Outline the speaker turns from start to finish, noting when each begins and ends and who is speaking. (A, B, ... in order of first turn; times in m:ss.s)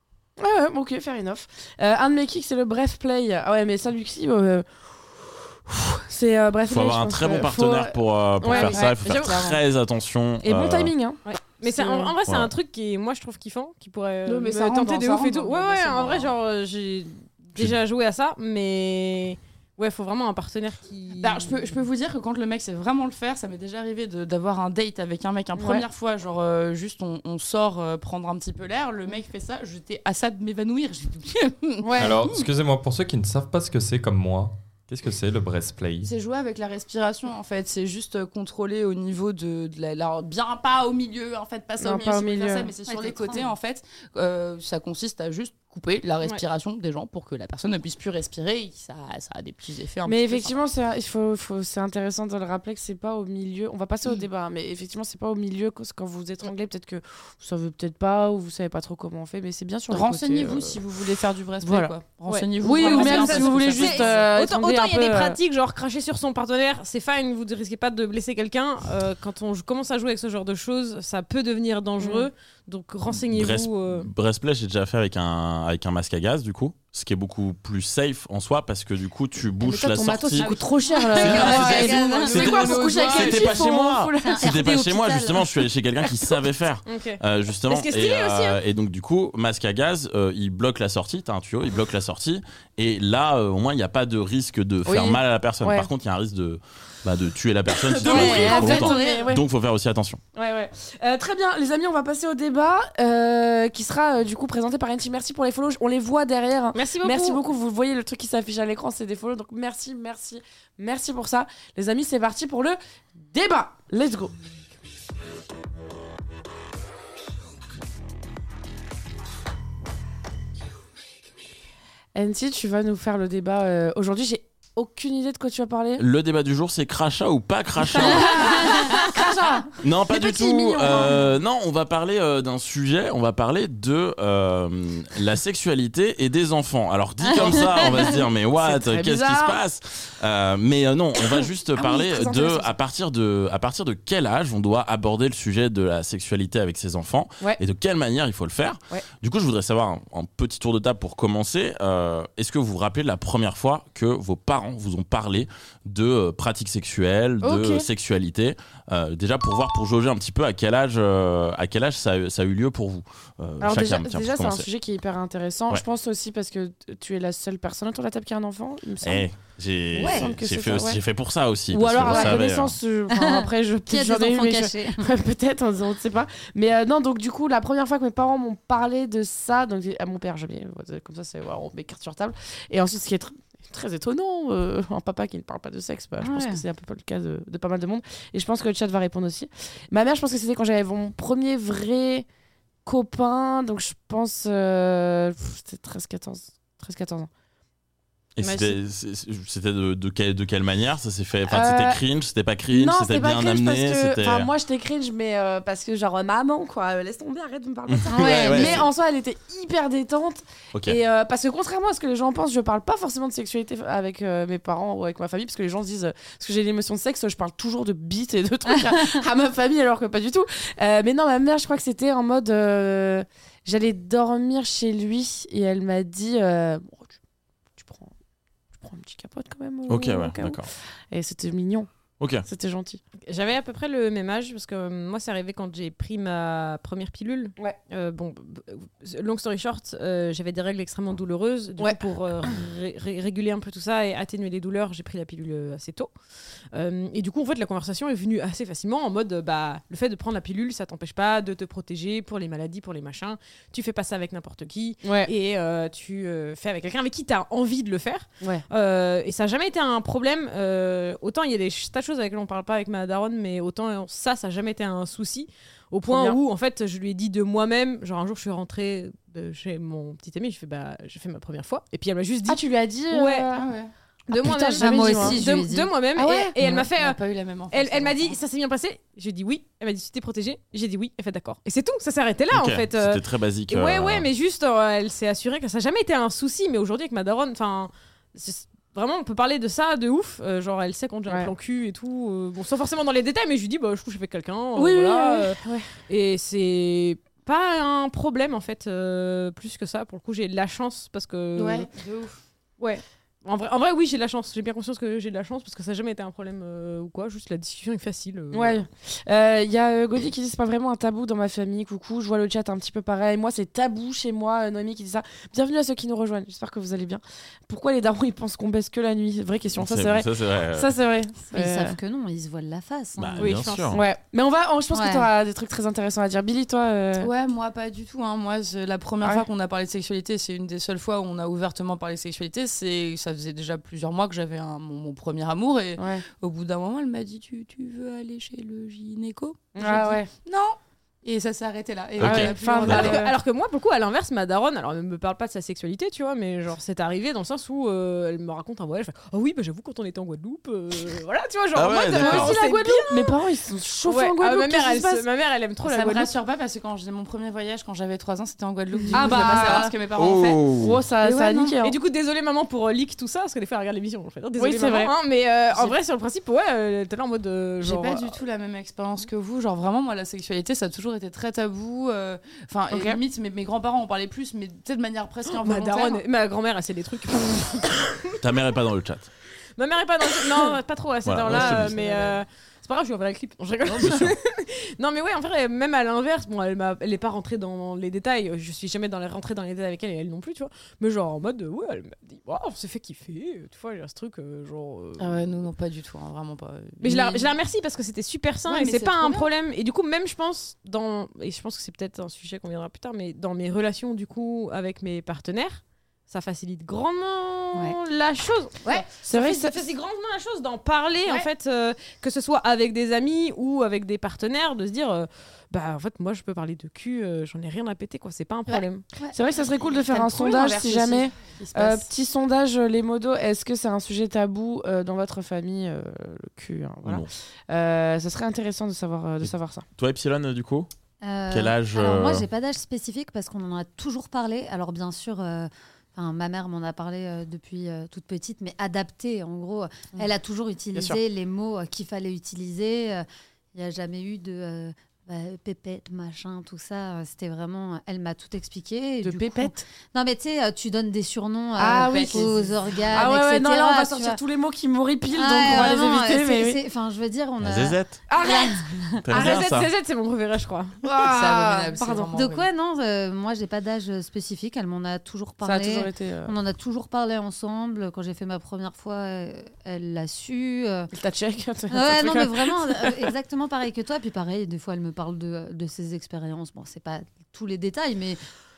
0:00.4-0:08.9 A
0:06.7-0:10.9 B
0:08.4-0:09.4 C
0:08.5-0:09.5 D
0:10.4-0:12.1 A
0:11.2-0:21.7 C
0:12.3-0:12.5 B
0:14.3-0:16.3 D
0:21.2-0:32.4 D
0:25.5-0:25.8 A
0:31.8-0:32.2 A
0:32.0-0:36.1 E
0:36.0-0:50.5 D
0:41.8-0:42.7 A
0:42.9-0:43.2 F
0:50.0-1:00.8 A
0:59.9-1:04.2 D
1:01.6-1:02.0 A
1:02.3-1:14.1 C
1:02.6-1:05.4 A
1:03.8-1:04.1 F
1:12.0-1:12.3 A
1:13.1-1:20.5 B
1:19.6-1:20.5 F
1:19.9-1:24.4 A
1:20.4-1:21.1 C
1:21.0-1:22.6 F
1:21.1-1:40.2 B
1:21.3-1:23.7 D
1:24.2-1:25.6 F
1:26.9-1:28.6 C
1:34.8-1:35.9 A
1:37.9-1:39.4 C
1:38.0-1:39.4 A
1:40.3-1:52.8 A
1:46.7-1:47.4 C
1:53.3-1:54.3 A
2:02.1-2:06.0 A
2:06.0-2:08.9 B
2:07.9-2:11.2 A
2:07.9-2:09.0 F
2:09.8-2:44.7 B
2:17.3-2:18.2 F
2:18.6-2:19.6 A
2:21.7-2:22.7 A
2:37.4-2:37.9 A
2:43.6-2:49.3 A
2:49.0-2:52.8 B
2:49.9-2:51.0 A
2:50.0-2:50.3 F
2:51.7-3:12.2 A
2:52.0-2:52.4 F
2:53.1-2:55.0 F
3:06.2-3:06.6 F
3:12.8-3:17.3 A
3:18.4-3:24.5 B
3:18.4-3:18.7 C
3:21.4-3:22.0 A
3:22.7-3:47.2 A
3:27.9-3:28.9 B
3:28.1-3:28.8 F
3:30.7-3:31.0 B
3:47.8-3:48.1 A
3:48.7-3:51.9 A
3:49.9-3:50.7 B
3:52.2-3:52.4 B
3:52.4-3:53.0 A
3:53.3-4:06.1 C
4:06.7-4:33.5 C
4:15.0-4:15.3 A
4:26.1-4:26.4 A
4:32.5-4:33.6 A
4:33.5-4:33.9 D
4:34.3-4:35.4 A
4:34.3-4:37.2 C
4:34.8-4:35.9 F
4:36.2-4:36.5 A
4:36.7-4:38.3 D
4:37.7-5:01.9 C
4:42.5-4:44.3 B
4:54.8-4:55.9 A
5:01.6-5:02.4 D
5:02.8-5:08.8 C
5:08.5-5:22.0 A
5:19.8-5:20.9 B
5:21.5-5:23.6 F
5:23.2-5:24.0 B
5:23.4-5:24.0 C
5:23.9-5:27.3 A
5:24.9-5:25.3 F
5:27.2-5:43.3 D
5:36.0-5:36.2 A
5:39.7-5:40.3 A
5:42.2-5:43.1 B
5:42.2-5:43.3 A
5:42.3-5:53.4 C
5:51.7-5:52.5 B
5:52.1-5:55.2 A
5:54.0-5:56.3 C
5:55.8-6:00.6 D
5:59.1-5:59.9 A
5:59.1-5:59.8 C
6:00.1-6:01.0 B
6:00.8-6:01.9 A
6:01.2-6:01.8 D
6:01.8-6:08.4 C
6:04.6-6:05.1 A
6:07.8-6:16.2 D
6:12.9-6:13.2 A
6:15.5-6:18.3 C
6:18.4-6:19.3 B
6:19.8-6:35.4 C
6:21.2-6:22.0 B
6:21.6-6:22.2 D
6:21.7-6:22.3 A
6:23.8-6:24.4 B
6:35.2-6:37.5 D
6:37.0-6:59.0 C
6:38.7-6:39.5 D
6:49.2-6:49.8 A
6:59.3-7:09.8 A
7:00.1-7:02.1 D
7:07.0-7:07.3 B
7:09.4-7:10.9 B
7:11.2-7:34.4 F
7:11.5-7:12.4 B
7:29.2-7:29.8 A
7:31.8-7:32.5 A
7:31.8-7:33.2 D
7:33.1-7:36.8 A
7:35.3-7:39.3 F
7:37.6-7:38.2 B
7:38.3-7:38.8 A
7:39.2-7:39.9 B
7:39.3-7:41.0 C
7:41.0-7:42.3 A
7:41.2-7:42.7 D
7:42.3-7:51.1 F
7:45.6-7:46.5 A
7:51.1-7:53.2 A
7:51.9-7:58.4 F